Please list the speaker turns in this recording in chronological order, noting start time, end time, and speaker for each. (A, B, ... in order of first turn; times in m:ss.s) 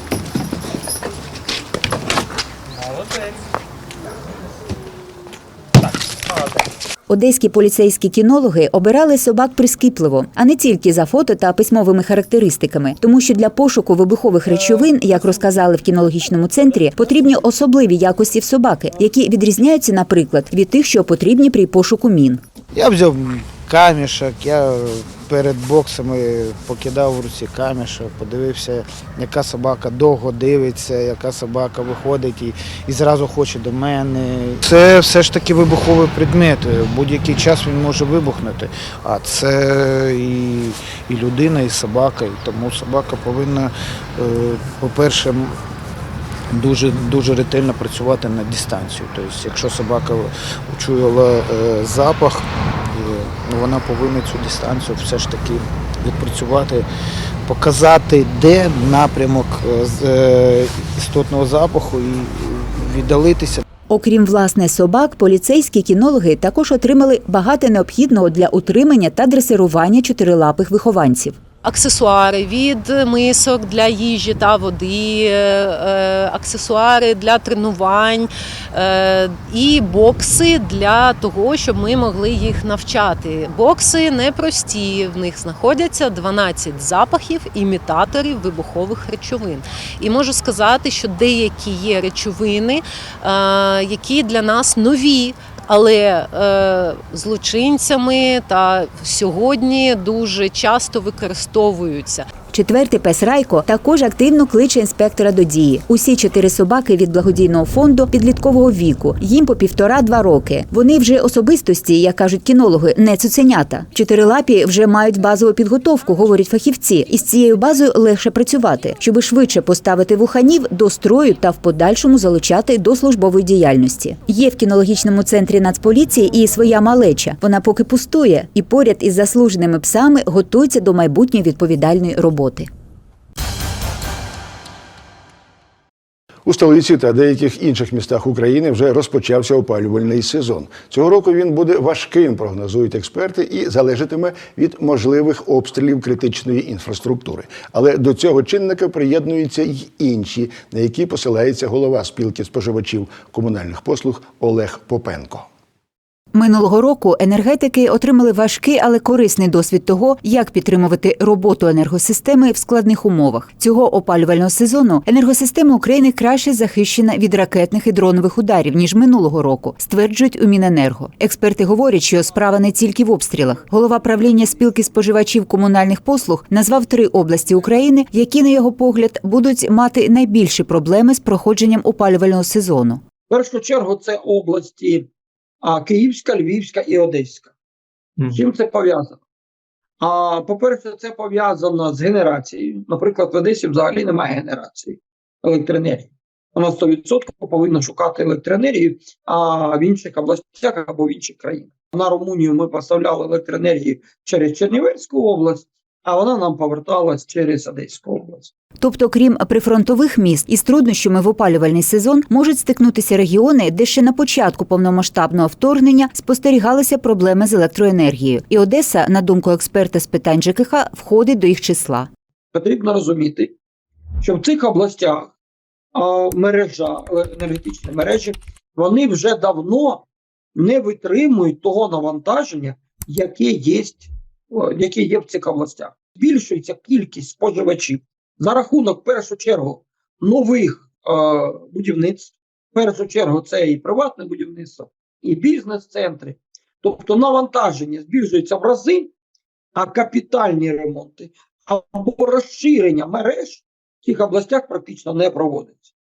0:07.1-0:22.4 A
0:22.7-0:45.5 B
0:46.5-0:56.8 B
0:57.4-1:03.6 B
1:03.9-1:11.4 A
1:11.6-1:42.2 C
1:42.5-2:12.7 A
2:16.4-2:35.4 D
2:36.3-3:03.0 A
3:03.3-3:05.1 E
3:05.6-3:07.5 E
3:08.2-3:09.2 E
3:10.0-3:28.5 E
3:28.8-3:42.1 A
3:42.5-3:43.5 E
3:44.2-3:45.3 E
3:45.9-3:50.0 E
3:50.5-4:09.1 E
4:09.7-4:15.9 E